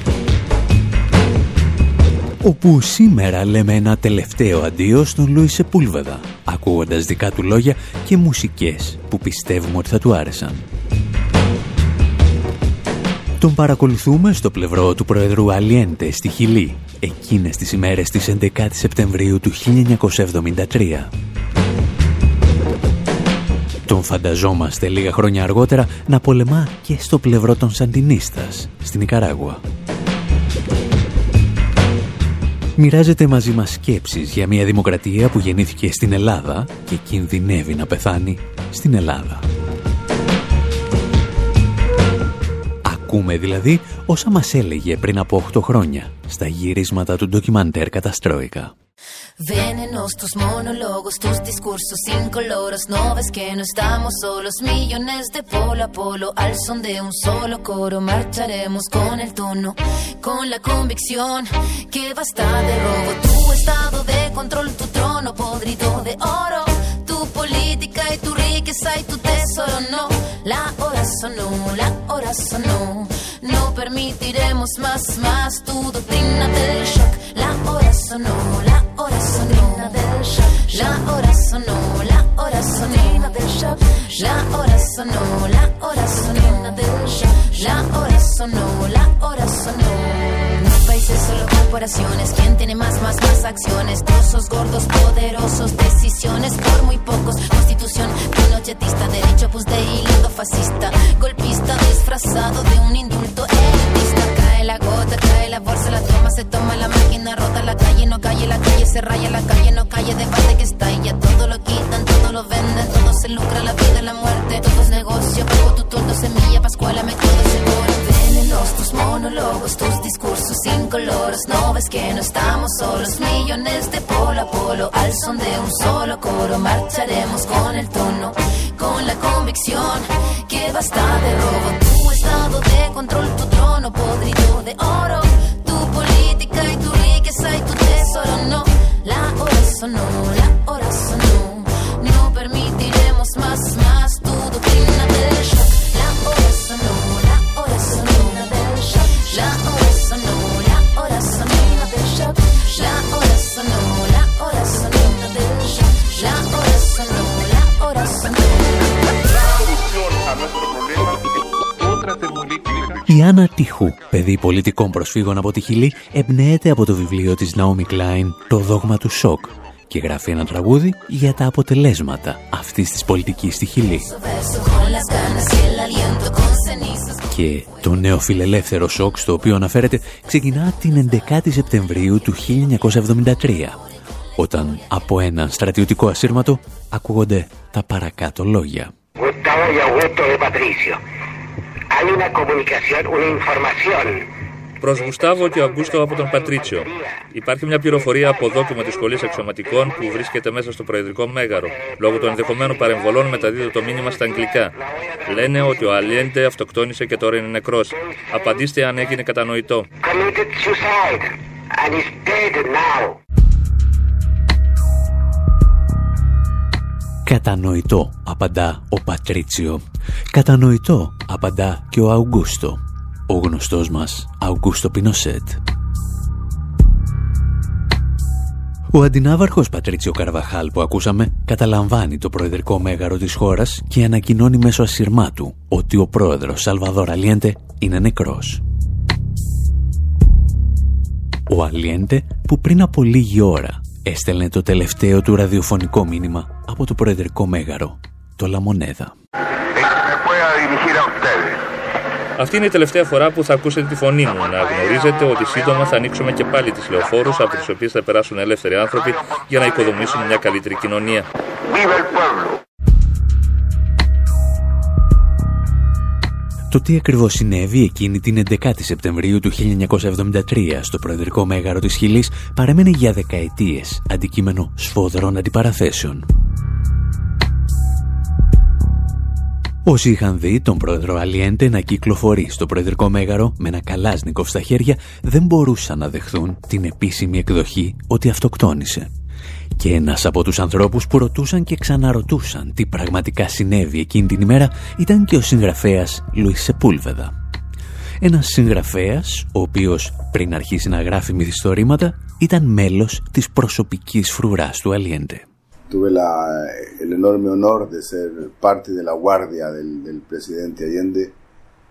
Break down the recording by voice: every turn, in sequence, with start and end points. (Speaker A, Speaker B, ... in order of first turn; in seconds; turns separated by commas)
Speaker A: 2.4-10.7, Speaker A: 13.4-21.1, Speaker A: 23.9-29.6, Speaker A: 32.8-39.5, Speaker A: 42.9-48.7, Speaker B: 49.4-158.9, Speaker A: 163.1-174.1, Speaker B: 173.9-177.3, Speaker A: 177.3-183.8, Speaker A: 184.4-188.9, Speaker C: 189.2-191.0, Speaker C: 191.9-194.3, Speaker D: 194.8-204.7, Speaker C: 196.9-197.2, Speaker C: 204.9-205.8, Speaker D: 205.2-209.9, Speaker C: 210.0-213.2, Speaker A: 217.3-225.6, Speaker A: 228.9-238.6, Speaker A: 241.5-249.2, Speaker D: 252.4-261.3, Speaker A: 266.7-276.2, Speaker A: 279.9-289.1, Speaker A: 289.8-297.3, Speaker A: 298.2-305.5, Speaker E: 305.9-311.4